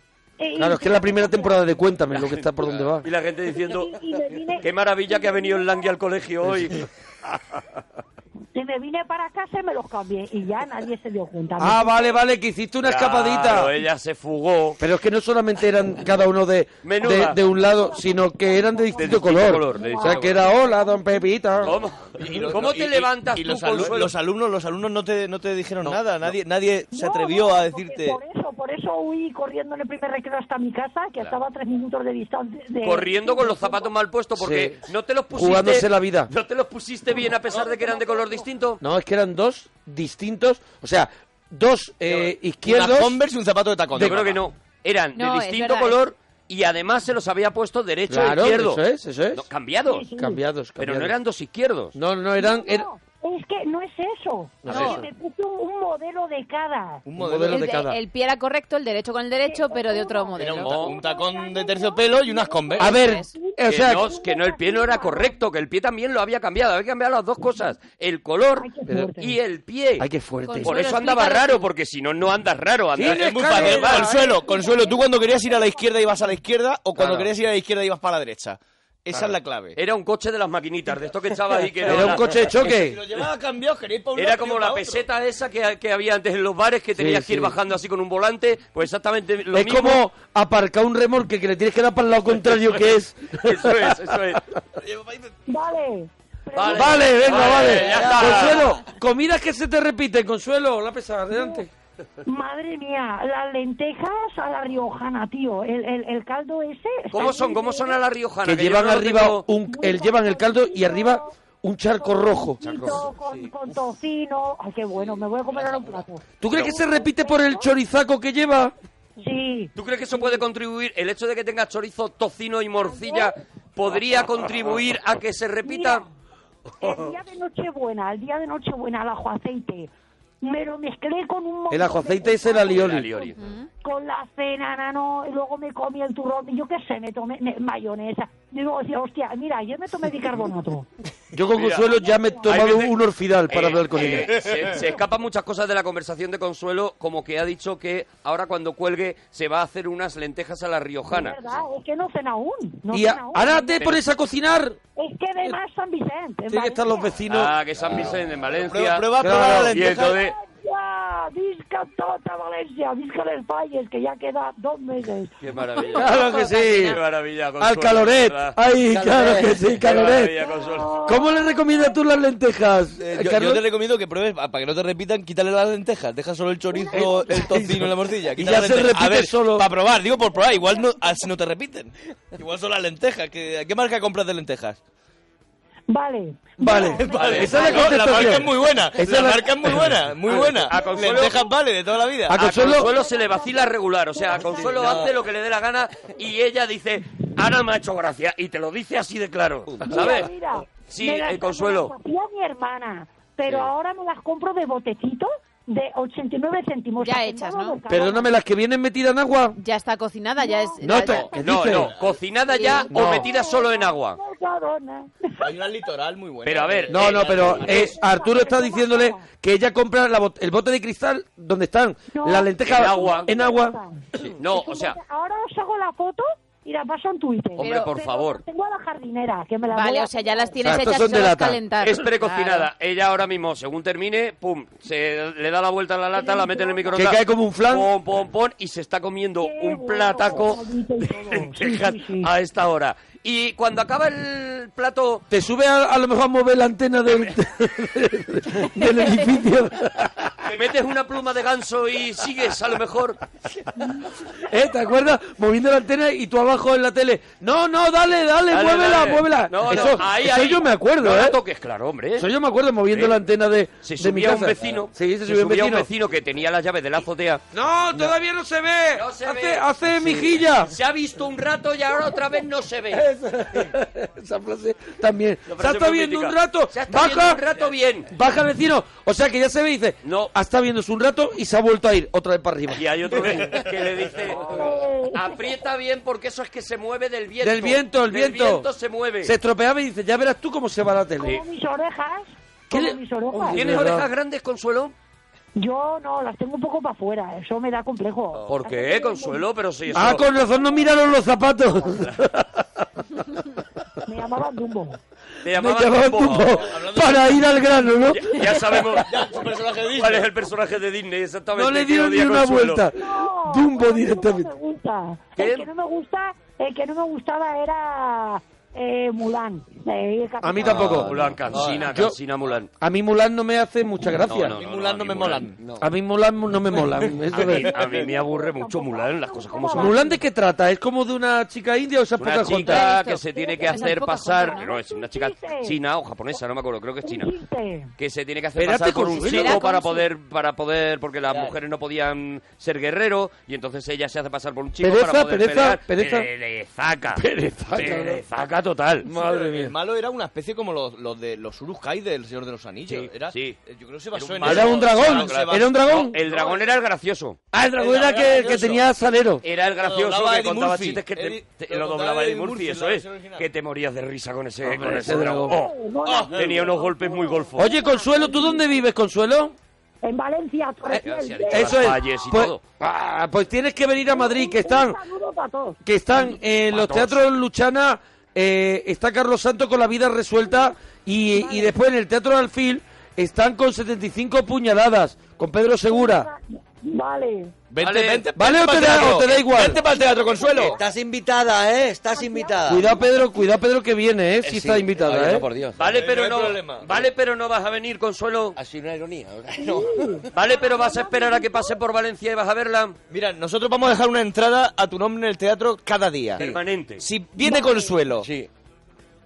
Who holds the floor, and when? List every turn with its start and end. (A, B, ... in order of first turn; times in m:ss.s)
0:00.4-0:01.7 A
0:00.6-0:03.1 B
0:02.9-0:04.0 C
0:03.6-0:06.0 A
0:04.6-0:06.8 C
0:08.6-0:12.2 A
0:11.6-0:13.7 B
0:12.8-0:14.8 C
0:14.8-0:21.8 B
0:16.8-0:17.4 C
0:17.5-0:21.3 A
0:19.0-0:20.4 C
0:21.6-0:24.1 C
0:22.2-0:28.2 D
0:26.9-0:33.9 A
0:32.8-0:38.8 C
0:34.4-0:34.8 B
0:35.3-0:36.3 B
0:37.5-0:38.5 A
0:38.8-0:43.2 B
0:42.1-0:44.4 D
0:43.9-0:44.2 B
0:44.0-0:48.8 C
0:45.2-0:46.0 E
0:48.1-0:49.4 B
0:49.3-0:50.1 C
0:49.9-0:50.4 A
0:50.2-0:51.1 B
0:50.8-0:52.0 C
0:52.0-0:52.9 B
0:52.4-0:57.0 A
0:54.6-0:55.0 B
0:57.1-0:57.7 D
0:57.2-0:58.0 B
0:57.5-1:00.9 E
0:59.5-1:05.4 A
1:00.4-1:03.0 D
1:00.6-1:01.0 C
1:02.8-1:04.1 B
1:02.9-1:03.2 E
1:03.7-1:10.1 C
1:08.6-1:09.3 A
1:10.0-1:10.9 B
1:10.5-1:11.7 E
1:10.6-1:14.2 C
1:13.0-1:14.1 B
1:13.0-1:19.8 D
1:13.9-1:16.3 A
1:17.0-1:17.2 B
1:19.8-1:22.4 C
1:21.9-1:23.0 B
1:22.1-1:25.0 D
1:24.2-1:30.0 C
1:27.0-1:27.6 B
1:29.5-1:34.0 B
1:32.4-1:34.4 C
1:34.8-1:35.3 D
1:35.5-1:37.5 A
1:36.6-1:38.7 C
1:36.7-1:41.7 B
1:37.4-1:38.3 D
1:37.9-1:38.5 F
1:41.3-1:41.6 A
1:42.3-1:48.0 A
1:47.1-1:49.4 C
1:48.4-1:52.6 B
1:49.7-1:51.3 A
1:52.0-1:57.7 A
1:52.6-1:53.1 C
1:56.4-1:58.7 B
1:59.2-1:59.7 A
1:59.8-2:06.0 C
2:02.8-2:03.3 A
2:05.6-2:06.0 A
2:06.8-2:09.9 A
2:10.4-2:13.3 A
2:11.7-2:13.1 B
2:12.7-2:13.4 C
2:13.4-2:13.7 E
2:13.8-2:20.9 A
2:21.3-2:24.4 B
2:21.6-2:21.9 C
2:22.0-2:22.6 A
2:22.5-2:23.0 C
2:23.5-2:31.5 C
2:31.1-2:33.8 A
2:32.9-2:34.8 B
2:35.0-2:37.2 A
2:36.5-2:37.6 B
2:37.3-2:40.4 C
2:37.9-2:38.2 F
2:38.6-2:40.2 D
2:39.2-2:39.8 B
2:40.0-2:45.8 A
2:45.4-2:48.6 C
2:45.9-2:47.0 B
2:47.6-2:50.4 B
2:48.9-2:49.6 F
2:49.8-2:51.0 C
2:50.4-2:52.0 A
2:51.1-2:53.6 B
2:53.0-3:04.8 D
2:56.7-2:57.4 A
2:56.9-2:59.7 B
3:05.9-3:08.2 A
3:06.6-3:10.6 B
3:07.0-3:12.5 D
3:10.7-3:11.5 C
3:10.7-3:11.0 A
3:12.3-3:12.9 B
3:12.4-3:20.3 C
3:12.7-3:14.9 A
3:14.4-3:15.1 F
3:19.7-3:20.2 F
3:19.9-3:28.3 A
3:20.9-3:21.9 C
3:27.0-3:27.8 E
3:27.9-3:29.6 B
3:29.6-3:31.4 E
3:30.4-3:31.7 A
3:30.8-3:31.9 B
3:31.3-3:34.2 C
3:31.7-3:32.2 D
3:32.5-3:35.4 A
3:32.9-3:33.3 B
3:35.4-3:37.9 D
3:36.4-3:37.9 C
3:36.9-3:43.8 B
3:37.7-3:39.2 A
3:42.1-3:50.6 A
3:42.7-3:43.3 C
3:44.4-3:45.0 C
3:47.6-3:47.9 E
3:47.6-3:48.4 C
3:49.7-3:52.7 E
3:50.6-3:51.6 B
3:51.8-4:05.2 C
3:56.2-3:57.0 A
3:57.0-3:57.9 B
3:59.4-4:02.3 A
4:05.3-4:10.3 B
4:10.4-4:13.2 C
4:14.5-4:21.4 B
4:18.5-4:22.3 C
4:22.2-4:25.9 B
4:22.9-4:23.2 C
4:23.8-4:27.4 C
4:27.5-4:30.7 B
4:29.0-4:29.7 C
4:30.6-4:33.1 C
4:32.9-4:37.4 B
4:35.5-4:38.1 C
4:38.1-4:43.5 B
4:40.0-4:40.3 C
4:42.8-4:49.3 C
4:44.4-4:45.4 A
4:47.4-4:48.7 B
4:49.2-4:51.4 B
4:51.2-4:53.6 A
4:52.7-4:54.1 B
4:53.5-4:54.9 C
4:55.6-4:59.5 A
4:58.5-5:00.2 C
4:59.9-5:02.5 B
5:00.0-5:01.1 A
5:04.0-5:05.0 A
5:05.4-5:06.8 C
5:05.5-5:09.0 B
5:06.6-5:07.3 D
5:08.1-5:09.4 C
5:09.0-5:10.3 D
5:09.9-5:12.8 C
5:11.6-5:14.5 B
5:13.0-5:20.9 A
5:15.4-5:15.7 C
5:20.4-5:21.2 B
5:20.6-5:21.8 F
5:20.6-5:22.7 C
5:21.5-5:21.9 D
5:21.9-5:22.2 B
5:22.8-5:24.6 B
5:24.2-5:25.5 C
5:24.3-5:24.5 F
5:24.6-5:25.6 D
5:25.6-5:25.9 F
5:25.8-5:27.7 B
5:27.3-5:30.0 C
5:27.6-5:30.2 A
5:29.8-5:32.9 B
5:32.2-5:37.3 C
5:32.7-5:34.7 E
5:33.3-5:35.8 A
5:37.0-5:37.9 A
5:38.0-5:47.2 C
5:38.6-5:39.7 B
5:39.2-5:40.1 E
5:44.8-5:46.3 B
5:47.1-5:48.2 B
5:47.7-5:49.1 C
5:49.0-5:49.8 B
5:49.2-5:56.7 D
5:52.9-5:53.6 C
5:54.1-5:57.4 C
5:54.4-5:56.2 B
5:57.5-5:59.4 B
5:57.8-5:58.9 D
5:59.4-6:05.7 C
5:59.8-6:03.5 D
6:04.7-6:05.6 B
6:05.5-6:08.8 A
6:06.1-6:06.7 D
6:06.3-6:07.7 C
6:07.6-6:09.6 B
6:10.0-6:11.9 A
6:11.0-6:12.6 C
6:11.5-6:15.0 B
6:14.1-6:15.8 A
6:15.8-6:26.3 B
6:16.7-6:17.2 C
6:20.4-6:20.7 A
6:21.3-6:21.7 A
6:25.9-6:27.5 A
6:27.7-6:30.8 D
6:27.8-6:28.3 C
6:28.4-6:29.8 B
6:29.9-6:30.8 A
6:30.6-6:33.0 F
6:32.1-6:33.1 A
6:32.7-6:35.5 B
6:34.4-6:35.9 F
6:35.8-6:38.6 C
6:35.9-6:37.1 D
6:38.6-6:40.2 F
6:39.6-6:41.8 A
6:40.3-6:43.0 C
6:43.1-6:48.3 D
6:46.4-6:47.0 C
6:47.4-6:47.9 A
6:48.2-6:48.5 F